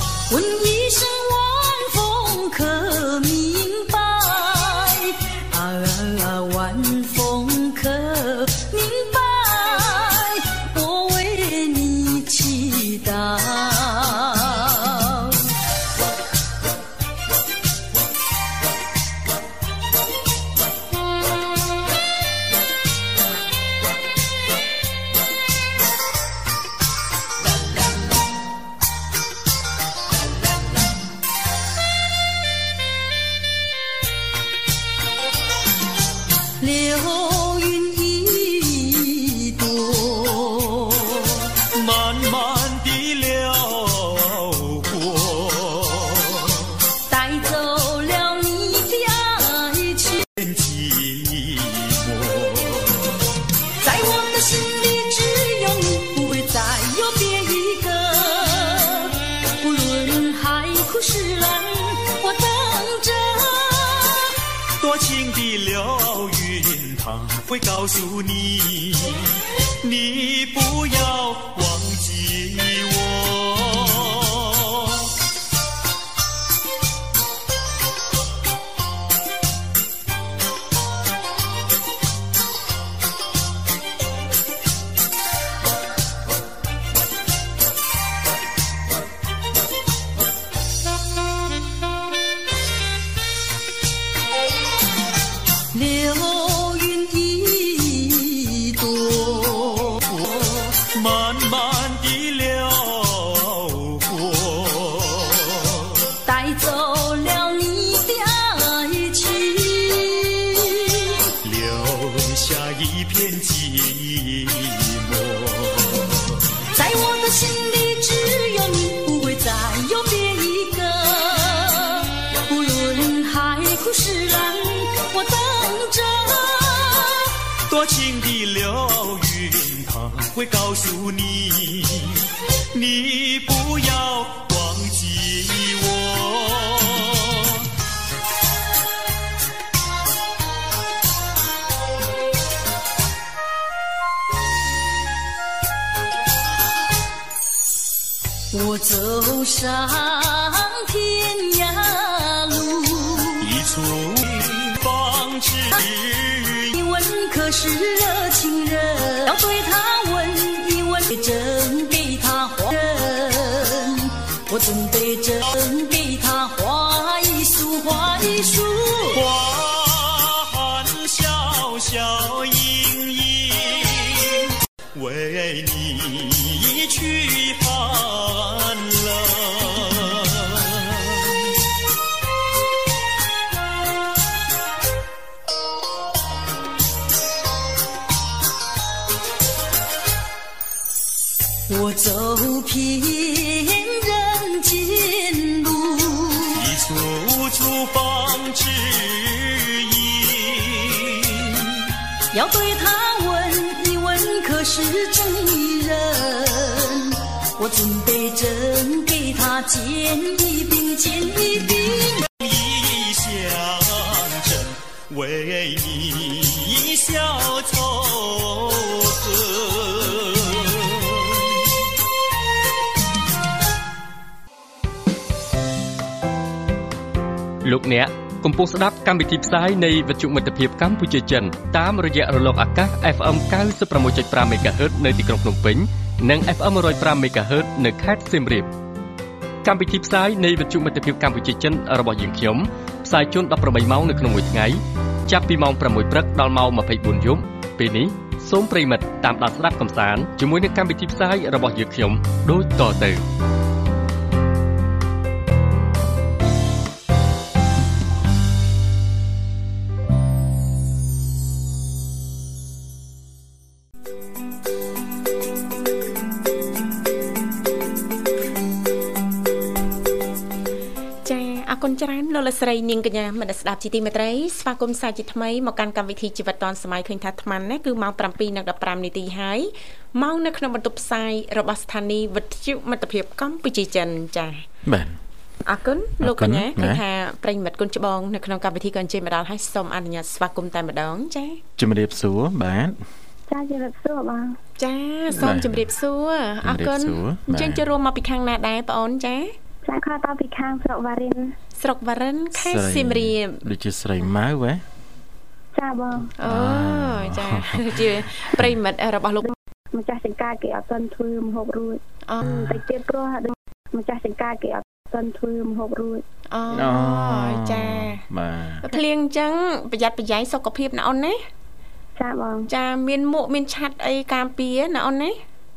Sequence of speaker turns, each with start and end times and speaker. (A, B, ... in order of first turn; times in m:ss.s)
0:00.3-0:15.4 A
0:36.6-0:41.5 A
0:41.7-0:46.8 B
0:47.1-0:50.3 A
0:50.4-0:53.1 B
0:53.8-1:04.3 A
1:04.8-1:15.1 B
1:35.7-1:40.2 A
1:40.1-1:46.0 B
1:46.2-1:51.3 A
1:51.4-1:56.4 B
1:56.7-2:07.3 A
2:07.7-2:17.7 B
2:28.5-2:33.5 A
2:33.4-2:36.7 B
2:36.7-2:49.2 A
2:49.1-3:01.3 B
3:11.7-3:16.6 A
3:16.5-3:21.8 B
3:22.3-3:32.3 A
3:32.4-3:41.6 B
3:47.6-3:58.7 C
3:59.6-4:13.2 C
4:31.2-4:44.6 D
4:44.8-4:45.2 E
4:45.6-4:51.6 D
4:46.2-4:47.0 E
4:51.8-4:53.0 E
4:53.5-4:54.6 F
4:54.8-4:59.5 D
4:55.3-4:55.9 E
4:56.6-4:57.8 E
4:59.8-5:01.6 F
5:01.8-5:03.6 D
5:02.5-5:04.8 E
5:05.7-5:06.3 F
5:06.4-5:09.5 D
5:06.4-5:08.7 E
5:09.4-5:16.2 F
5:12.3-5:12.6 D
5:12.4-5:12.8 E
5:16.5-5:18.2 D
5:16.7-5:18.9 E
5:18.8-5:21.4 D
5:22.2-5:22.7 F
5:22.7-5:25.4 D